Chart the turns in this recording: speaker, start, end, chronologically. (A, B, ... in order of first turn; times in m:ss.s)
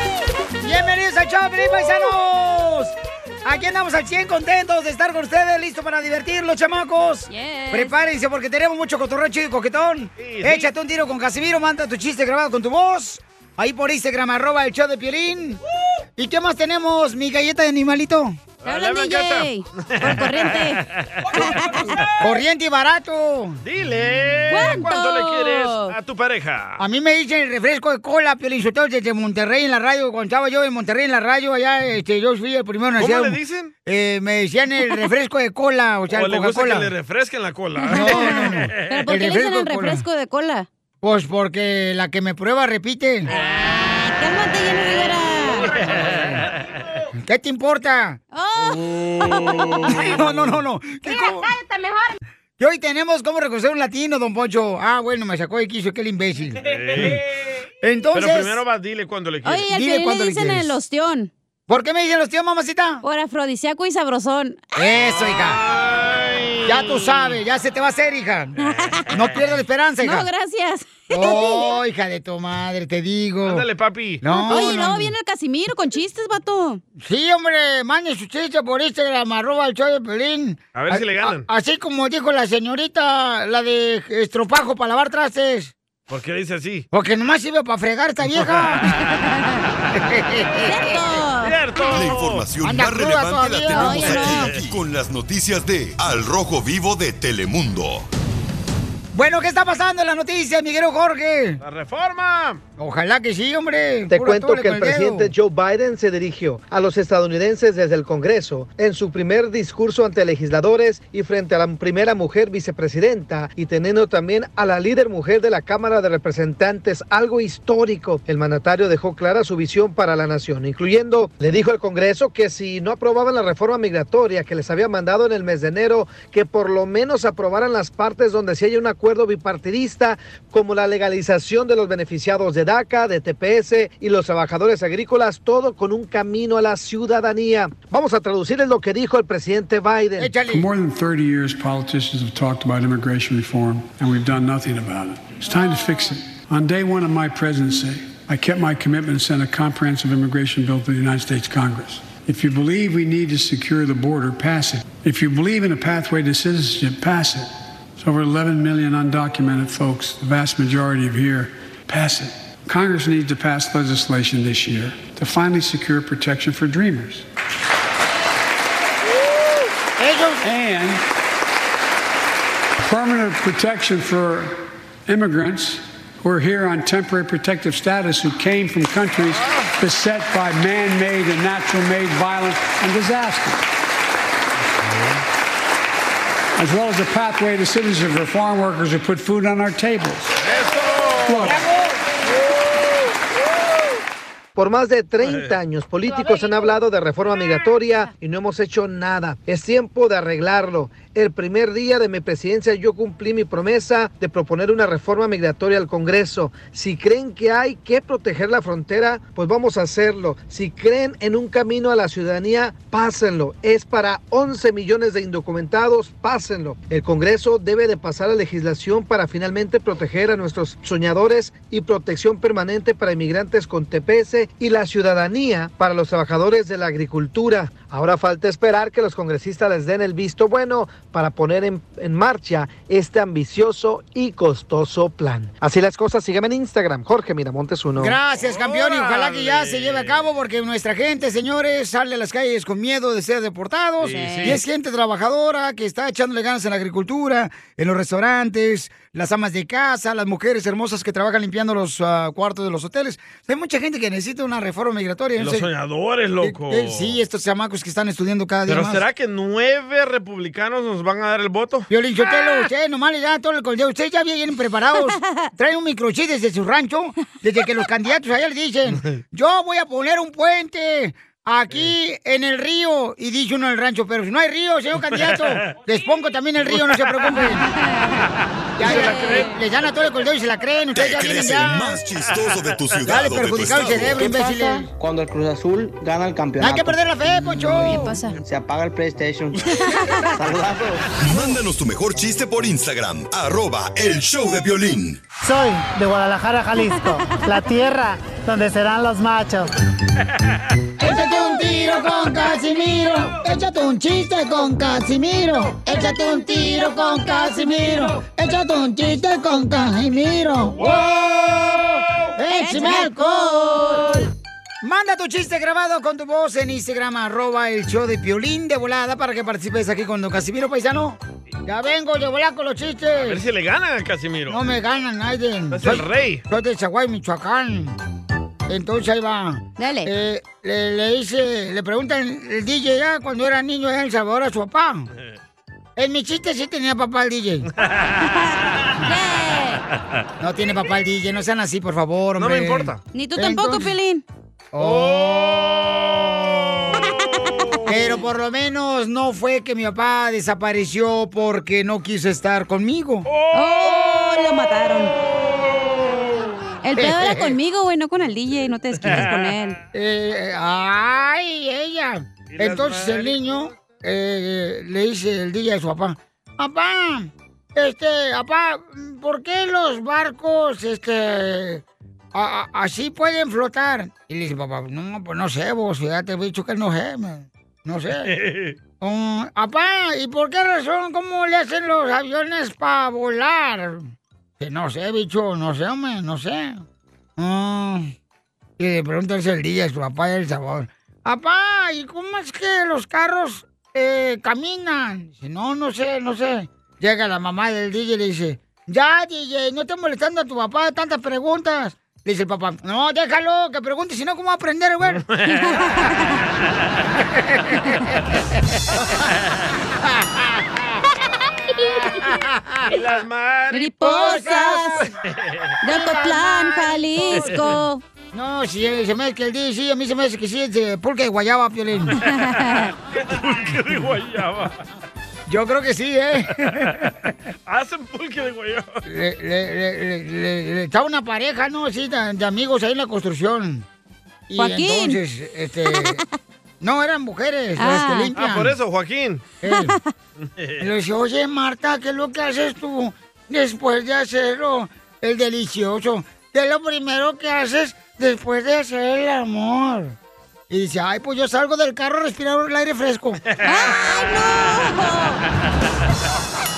0:00.6-0:15.6 A
0:07.3-0:07.9 B
0:10.2-0:10.7 C
0:16.2-0:18.4 A
0:18.6-0:22.1 C
0:18.6-0:22.0 B
0:22.2-0:23.6 A
0:23.6-0:26.8 C
0:24.5-0:25.9 B
0:26.8-0:36.9 A
0:33.0-0:33.7 C
0:36.1-0:39.0 C
0:37.8-0:40.7 B
0:37.9-0:40.0 A
0:41.0-0:43.3 A
0:43.4-0:45.7 B
0:45.8-0:46.6 C
0:46.0-0:46.4 A
0:47.2-0:48.2 A
0:48.3-0:50.2 B
0:49.8-0:51.5 A
0:52.6-0:57.2 A
0:56.6-0:57.2 C
0:57.8-0:58.6 A
0:58.1-0:59.7 C
0:59.4-1:01.3 B
0:59.7-1:00.8 A
1:01.7-1:03.0 A
1:03.0-1:04.7 B
1:04.8-1:05.6 A
1:05.2-1:07.4 C
1:06.6-1:08.6 A
1:08.6-1:09.3 C
1:08.7-1:09.1 B
1:09.1-1:10.3 A
1:10.0-1:11.8 B
1:11.1-1:13.6 A
1:13.4-1:14.2 C
1:14.2-1:15.1 A
1:14.3-1:16.8 B
1:17.0-1:25.7 A
1:20.7-1:21.5 C
1:26.1-1:26.8 C
1:26.9-1:29.0 A
1:28.4-1:29.2 C
1:29.9-1:31.0 A
1:30.6-1:31.5 B
1:31.4-1:32.5 C
1:31.9-1:38.0 D
1:32.6-1:34.5 A
1:33.7-1:34.5 B
1:39.1-1:41.6 A
1:41.6-1:42.6 C
1:42.8-1:45.3 A
1:44.1-2:20.3 E
2:20.2-2:20.7 A
2:20.5-2:47.2 F
2:50.0-2:50.5 A
2:50.4-2:51.0 F
2:52.8-3:03.6 F
3:06.6-3:10.3 F
3:10.4-3:11.5 C
3:11.2-3:11.6 F
3:11.4-3:12.0 A
3:14.5-3:58.2 E
3:58.0-4:15.7 A
3:58.3-4:00.4 C
4:04.0-4:04.6 C
4:04.1-4:04.6 B
4:15.4-4:17.2 C
4:16.4-4:19.0 A
4:18.7-4:21.9 C
4:21.9-4:37.6 A
4:25.1-4:25.4 B
4:35.2-4:35.7 C
4:38.8-4:39.5 C
4:38.8-4:42.0 A
4:38.8-4:39.5 B
4:40.9-4:44.3 D
4:43.0-4:44.9 A
4:44.2-4:47.0 G
4:46.6-4:48.2 A
4:47.8-4:48.4 B
4:47.9-4:51.1 G
4:49.8-4:50.2 B
4:51.2-4:55.2 D
4:55.4-4:59.7 H
5:01.0-5:14.2 A
5:10.8-5:12.3 C
5:12.5-5:14.2 B
5:14.8-5:23.4 A
5:23.1-5:24.6 C
5:24.5-5:28.0 A
5:25.7-5:26.4 C
5:28.7-5:35.1 A
5:29.8-5:30.1 B
5:36.0-5:37.7 A
5:37.8-5:38.5 C
5:39.0-5:39.8 B
5:40.4-5:43.9 A
5:42.4-5:43.0 C
5:43.1-5:44.2 B
5:44.7-5:45.8 A
5:44.8-5:48.2 C
5:47.8-5:53.3 A
5:53.2-5:54.2 C
5:53.5-5:55.1 B
5:55.5-5:56.5 C
5:56.8-5:59.8 B
5:57.0-5:57.6 A
5:59.0-5:59.6 C
5:59.9-6:11.8 A
6:02.5-6:03.6 C
6:12.3-6:18.3 A
6:18.2-6:18.8 C
6:19.0-6:26.8 A
6:27.4-6:28.1 A
6:28.8-6:45.2 A
6:45.1-6:46.1 C
6:47.6-6:48.2 A
6:50.0-6:50.9 A
6:51.9-6:53.0 A
6:52.8-6:53.9 C
6:53.7-6:55.1 B
6:54.0-6:55.1 A
6:55.2-6:55.7 C
6:55.8-6:58.0 B
6:55.8-6:57.6 A
6:57.3-6:57.7 C
6:58.3-7:02.2 A
7:02.2-7:02.9 B
7:03.1-7:04.8 C
7:05.5-7:06.9 A
7:07.7-7:09.0 C
7:09.0-7:13.8 A
7:14.5-7:16.2 A
7:14.6-7:15.2 B
7:15.9-7:16.2 B
7:16.8-7:18.7 A
7:17.8-7:18.3 B
7:18.3-7:19.4 C
7:19.6-7:20.0 A
7:19.6-7:20.1 B
7:20.4-7:20.9 C
7:20.8-7:30.2 A
7:30.7-7:33.4 A
7:33.5-7:34.0 C
7:33.6-7:35.4 B